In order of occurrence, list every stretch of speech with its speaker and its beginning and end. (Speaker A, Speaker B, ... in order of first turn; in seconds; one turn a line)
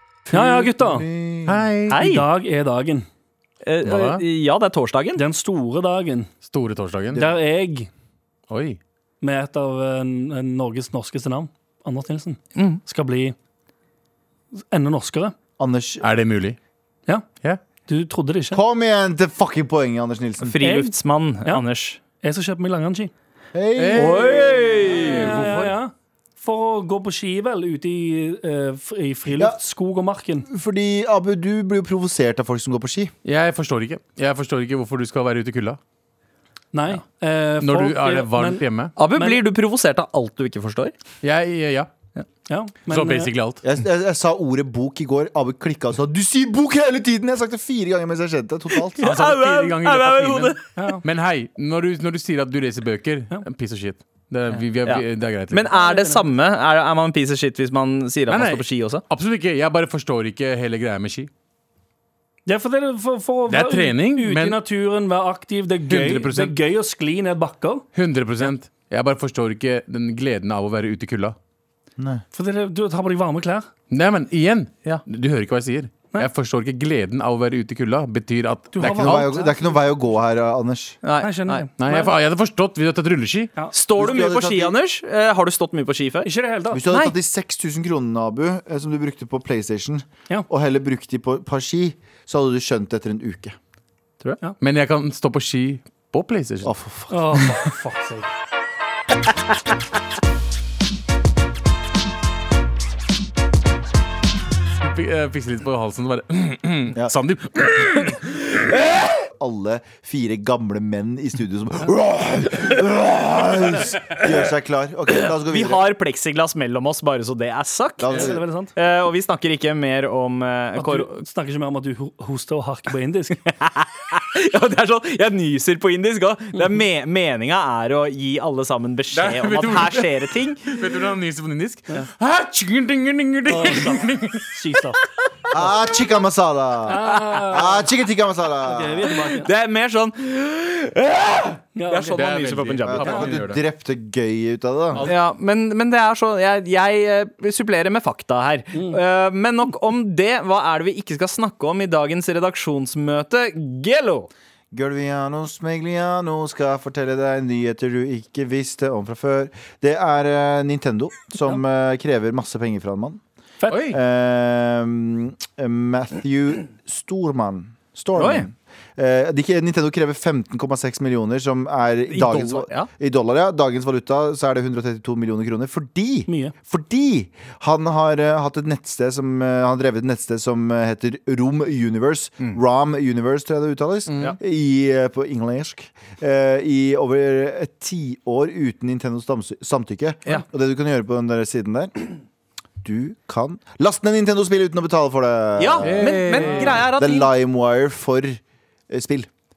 Speaker A: 0.3-1.6
Speaker B: 0.3-1.1
Speaker C: 1.4-2.0
Speaker D: 1.9-2.2
Speaker B: 1.9-3.1
Speaker D: 3.6-5.2
Speaker C: 3.8-4.2
Speaker B: 5.2-6.3
Speaker C: 6.4-7.2
Speaker B: 7.1-7.9
Speaker C: 8.5-8.8
Speaker B: 9.2-13.3
Speaker D: 12.6-12.8
Speaker B: 14.6-15.3
Speaker A: 15.6-16.0
Speaker C: 16.0-16.6
Speaker B: 17.9-18.6
Speaker A: 18.5-20.6
Speaker D: 20.4-22.0
Speaker B: 22.2-23.1
Speaker A: 23.5-24.9
Speaker C: 23.8-25.7
Speaker D: 23.9-25.4
Speaker B: 25.0-30.5
Speaker A: 30.4-33.1
Speaker C: 33.2-35.8
Speaker B: 36.7-39.4
Speaker C: 37.6-38.9
Speaker D: 39.0-40.9
Speaker C: 41.2-41.9
Speaker B: 42.5-43.3
Speaker C: 42.9-43.6
Speaker A: 43.6-49.0
Speaker D: 48.9-50.6
Speaker C: 49.0-55.7
Speaker B: 50.8-51.0
Speaker D: 54.5-59.0
Speaker B: 55.7-56.3
Speaker C: 58.3-61.3
Speaker B: 62.5-67.8
Speaker C: 63.5-64.6
Speaker C: 65.8-66.5
Speaker C: 67.9-71.3
Speaker A: 72.0-72.2
Speaker B: 72.3-73.7
Speaker C: 73.9-79.3
Speaker B: 78.7-79.8
Speaker A: 78.8-81.0
Speaker D: 81.0-81.7
Speaker B: 81.2-82.1
Speaker C: 81.8-83.5
Speaker D: 83.7-86.3
Speaker A: 83.9-84.7
Speaker B: 86.2-86.8
Speaker A: 86.7-93.5
Speaker C: 94.6-96.7
Speaker A: 96.6-97.4
Speaker B: 97.1-98.3
Speaker C: 104.8-108.3
Speaker A: 109.2-115.8
Speaker D: 115.2-121.1
Speaker A: 118.0-118.4
Speaker B: 118.1-118.7
Speaker B: 120.8-123.4
Speaker D: 123.5-131.0
Speaker C: 129.1-134.6
Speaker B: 133.5-135.0
Speaker A: 135.5-139.2
Speaker B: 136.8-137.9
Speaker B: 138.6-139.5
Speaker D: 139.1-143.4
Speaker B: 141.8-142.1
Speaker C: 142.1-143.6
Speaker A: 142.8-145.1
Speaker D: 145.0-154.3
Speaker B: 148.7-149.0
Speaker A: 154.7-163.2
Speaker B: 163.6-163.8
Speaker C: 163.7-164.0
Speaker A: 163.9-192.1
Speaker D: 168.2-168.5
Speaker D: 172.1-172.9
Speaker B: 176.3-176.5
Speaker A: 192.8-199.3
Speaker D: 195.6-197.3
Speaker C: 195.8-196.8